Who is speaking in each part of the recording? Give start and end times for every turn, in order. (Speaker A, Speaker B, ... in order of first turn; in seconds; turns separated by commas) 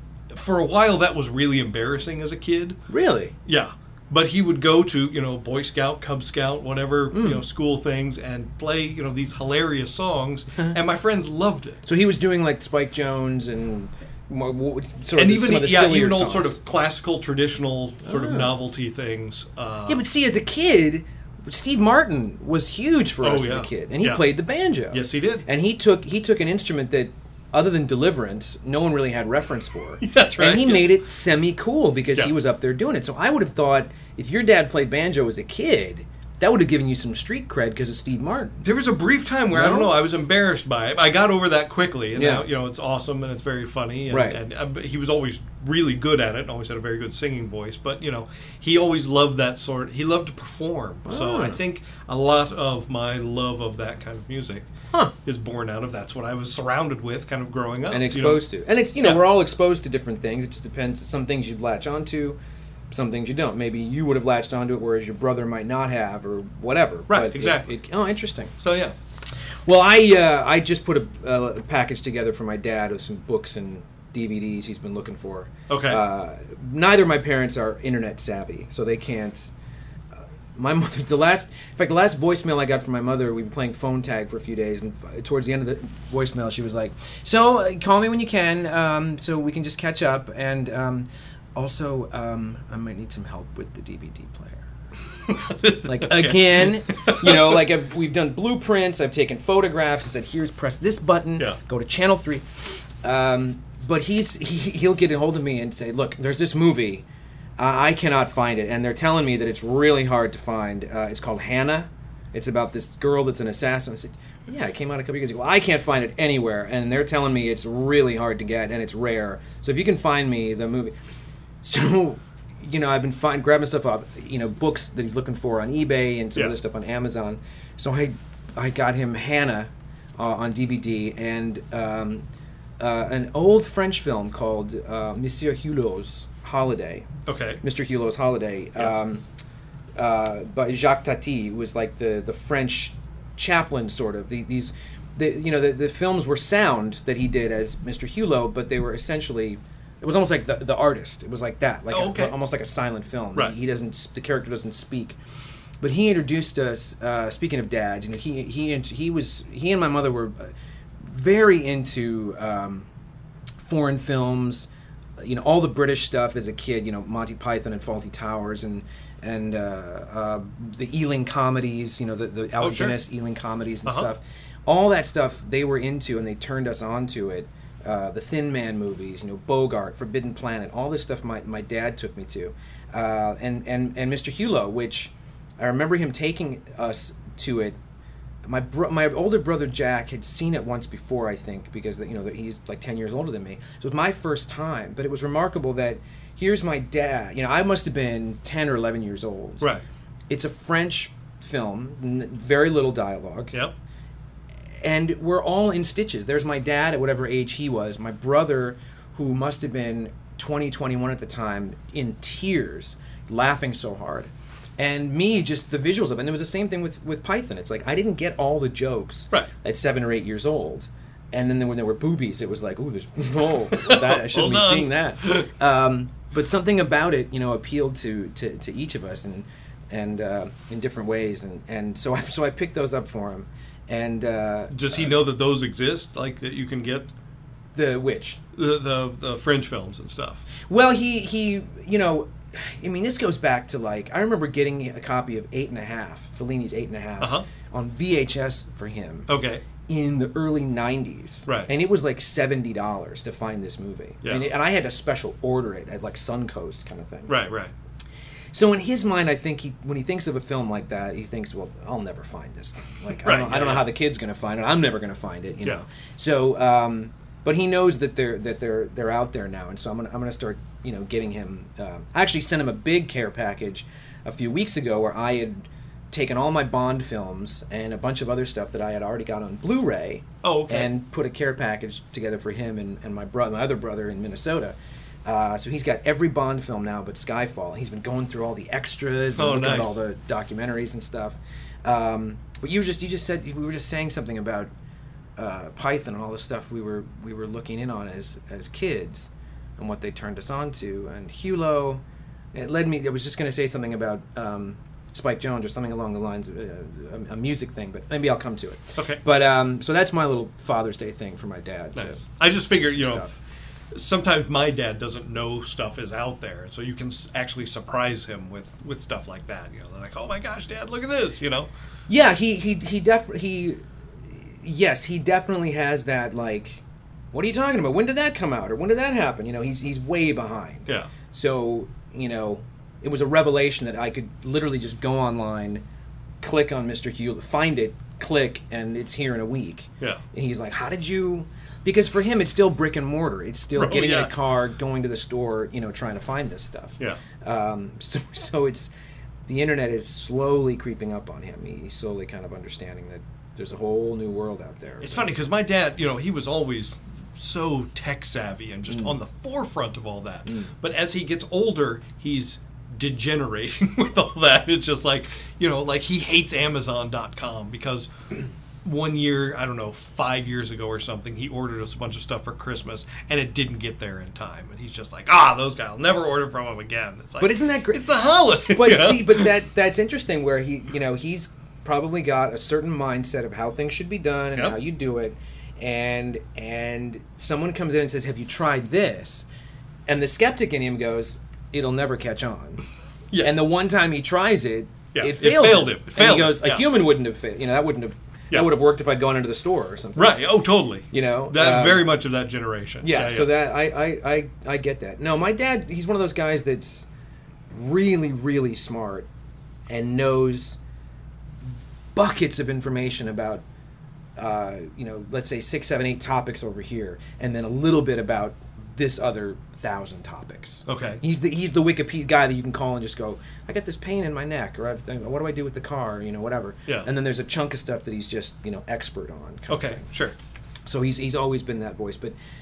Speaker A: 0.3-2.8, Speaker B: 2.9-3.3, Speaker A: 3.5-11.8, Speaker B: 7.1-7.4, Speaker B: 11.8-16.6, Speaker A: 15.1-20.0, Speaker B: 18.0-18.5, Speaker B: 19.9-38.6, Speaker A: 23.2-24.2, Speaker A: 24.9-25.4, Speaker A: 30.0-30.9, Speaker A: 38.6-54.7, Speaker B: 39.5-40.0, Speaker B: 42.1-42.5, Speaker B: 44.1-44.4, Speaker B: 51.0-51.6, Speaker A: 55.2-58.4, Speaker B: 57.9-62.4, Speaker A: 59.0-59.3, Speaker B: 62.9-68.5, Speaker A: 67.1-67.7, Speaker A: 68.6-69.0, Speaker B: 69.7-79.5, Speaker A: 75.7-76.0, Speaker B: 80.5-94.7, Speaker A: 95.3-97.6, Speaker B: 95.8-102.4, Speaker B: 103.0-107.0, Speaker B: 107.6-120.9, Speaker B: 121.6-132.2, Speaker B: 132.8-137.1, Speaker A: 137.2-137.6, Speaker B: 137.6-139.2, Speaker B: 140.0-155.2, Speaker A: 151.9-152.4, Speaker B: 155.8-160.5, Speaker B: 161.0-162.9, Speaker B: 163.6-187.8, Speaker A: 172.6-173.0, Speaker B: 188.4-199.7, Speaker B: 200.3-203.5, Speaker B: 204.8-235.1, Speaker A: 223.7-225.5, Speaker A: 234.7-237.1, Speaker B: 237.7-238.4, Speaker A: 238.5-240.4, Speaker B: 240.7-249.3, Speaker A: 247.2-247.4, Speaker A: 249.3-249.6, Speaker B: 249.8-257.4, Speaker A: 254.2-254.5, Speaker A: 257.3-257.7, Speaker B: 258.5-294.7, Speaker A: 263.2-263.9, Speaker A: 280.4-280.9, Speaker A: 289.4-290.0, Speaker B: 295.4-302.0, Speaker B: 302.5-313.4, Speaker A: 308.9-309.2, Speaker A: 311.9-313.3, Speaker A: 313.9-321.7, Speaker B: 322.1-335.8, Speaker B: 336.4-348.9, Speaker A: 343.7-344.3, Speaker B: 349.5-355.3, Speaker A: 355.0-368.1, Speaker B: 358.9-359.2, Speaker A: 368.8-379.5, Speaker B: 377.4-378.0, Speaker B: 378.7-389.4, Speaker B: 390.1-392.8, Speaker A: 393.3-393.6, Speaker B: 393.4-400.5, Speaker A: 395.1-396.9, Speaker A: 400.1-403.5, Speaker B: 401.1-402.1, Speaker B: 403.0-407.1, Speaker B: 407.7-409.3, Speaker B: 409.9-410.8, Speaker B: 412.1-413.6, Speaker B: 414.4-430.1, Speaker A: 420.9-421.2, Speaker A: 429.7-430.3, Speaker B: 430.8-432.3